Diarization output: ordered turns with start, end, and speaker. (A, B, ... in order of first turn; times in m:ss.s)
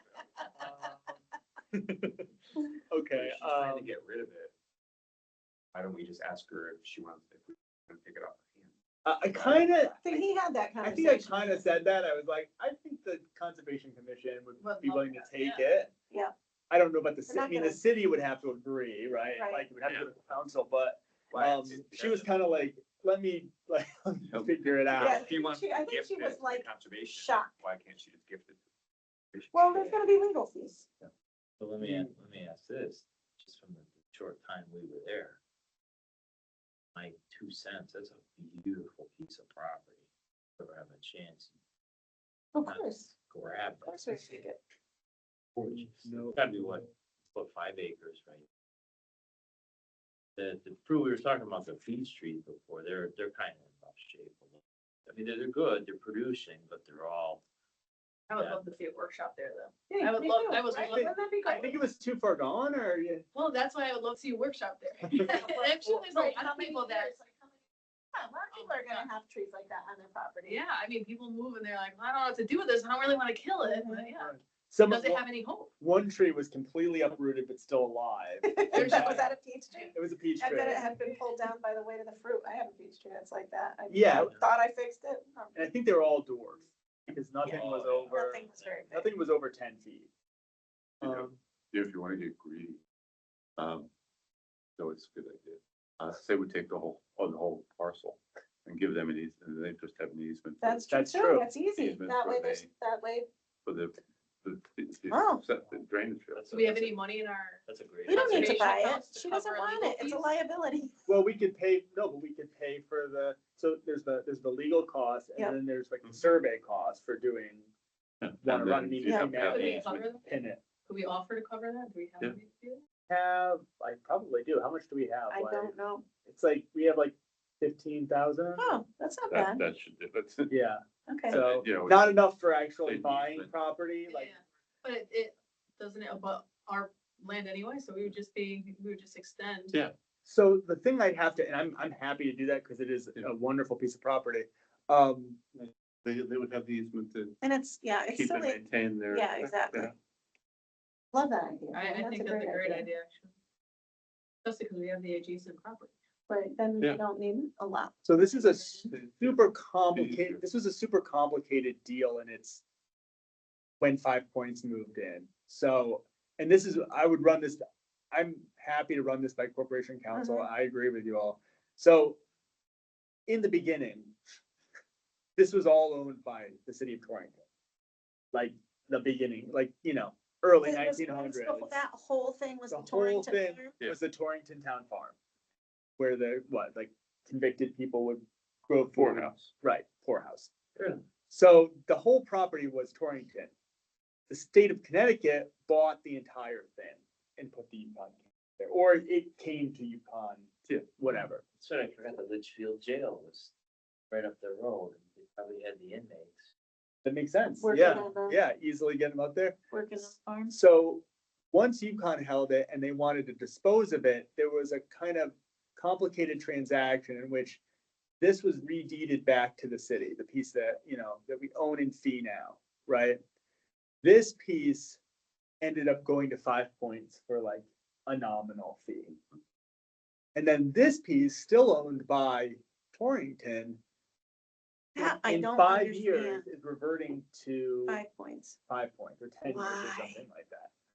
0:00.6-0:00.9 A
0:01.7-0:02.2 A
0:02.9-0:03.9 A
0:03.1-0:04.5 B
0:05.7-0:08.7 B
0:09.0-0:10.0 A
0:09.3-0:09.6 B
0:10.0-0:11.6 C
0:10.8-0:15.9 A
0:14.6-0:15.6 D
0:16.7-0:25.3 A
0:17.3-0:17.8 C
0:19.3-0:19.7 C
0:21.3-0:22.4 B
0:24.3-0:24.6 E
0:24.9-0:28.6 B
0:25.0-0:27.6 C
0:29.3-0:30.0 B
0:29.5-0:30.9 C
0:31.6-0:35.4 F
0:36.9-0:40.0 F
0:40.6-0:41.5 F
0:42.5-0:43.1 C
0:42.6-0:44.2 F
0:43.8-0:44.6 C
0:45.6-0:48.5 F
0:45.6-0:46.4 A
0:50.4-0:57.4 F
0:58.3-1:01.7 D
0:58.3-0:58.7 F
0:59.9-1:01.8 C
1:01.5-1:03.2 A
1:03.3-1:07.2 D
1:05.2-1:07.6 C
1:08.1-1:10.6 C
1:08.5-1:09.1 D
1:10.4-1:15.7 D
1:13.6-1:14.1 C
1:14.1-1:15.3 A
1:15.8-1:19.3 A
1:18.4-1:25.7 C
1:18.7-1:19.9 D
1:19.9-1:20.8 A
1:20.5-1:21.5 D
1:23.9-1:24.3 A
1:24.1-1:24.4 F
1:25.5-1:30.1 A
1:27.4-1:28.8 F
1:28.1-1:29.1 C
1:31.0-1:31.4 A
1:31.0-1:32.8 E
1:33.6-1:33.9 E
1:34.8-1:40.9 E
1:40.6-1:43.3 C
1:40.9-1:41.5 A
1:41.6-1:42.7 E
1:43.6-1:46.9 E
1:45.1-1:45.4 C
1:46.3-1:47.1 F
1:46.5-1:50.3 D
1:47.6-1:48.7 F
1:48.1-1:51.0 C
1:51.0-1:57.7 A
1:58.2-2:00.2 E
1:58.4-2:00.6 A
1:59.0-1:59.3 C
1:59.4-2:00.3 D
2:00.8-2:02.8 D
2:03.1-2:08.8 A
2:05.3-2:06.1 C
2:08.6-2:09.6 C
2:09.3-2:10.5 E
2:10.5-2:14.3 A
2:11.1-2:11.4 C
2:11.3-2:13.5 E
2:14.1-2:19.8 D
2:20.2-2:25.4 A
2:25.6-2:27.4 E
2:27.4-2:29.9 C
2:28.1-2:29.9 E
2:31.1-2:32.9 C
2:31.7-2:33.3 D
2:34.4-2:35.9 D
2:36.3-2:38.8 C
2:38.0-2:42.6 A
2:38.9-2:39.4 E
2:39.9-2:40.4 E
2:43.8-2:52.2 A
2:50.1-2:50.5 C
2:53.3-2:54.2 A
2:55.4-2:57.4 A
2:58.3-3:01.8 A
3:00.6-3:03.7 C
3:02.7-3:05.2 A
3:06.0-3:10.5 A
3:08.9-3:09.5 E
3:10.8-3:11.0 F
3:11.3-3:13.5 A
3:14.3-3:21.4 A
3:20.7-3:21.3 E
3:21.6-3:23.5 F
3:24.1-3:26.5 F
3:27.0-3:29.6 A
3:27.6-3:28.4 C
3:29.7-3:30.5 C
3:30.5-3:37.6 A
3:38.2-3:43.2 A
3:44.0-3:45.0 A
3:45.6-3:49.2 A
3:50.3-3:53.8 A
3:55.0-3:56.4 C
3:55.0-3:58.0 A
3:57.9-3:58.6 C
3:58.7-4:00.7 A
3:59.5-4:00.2 C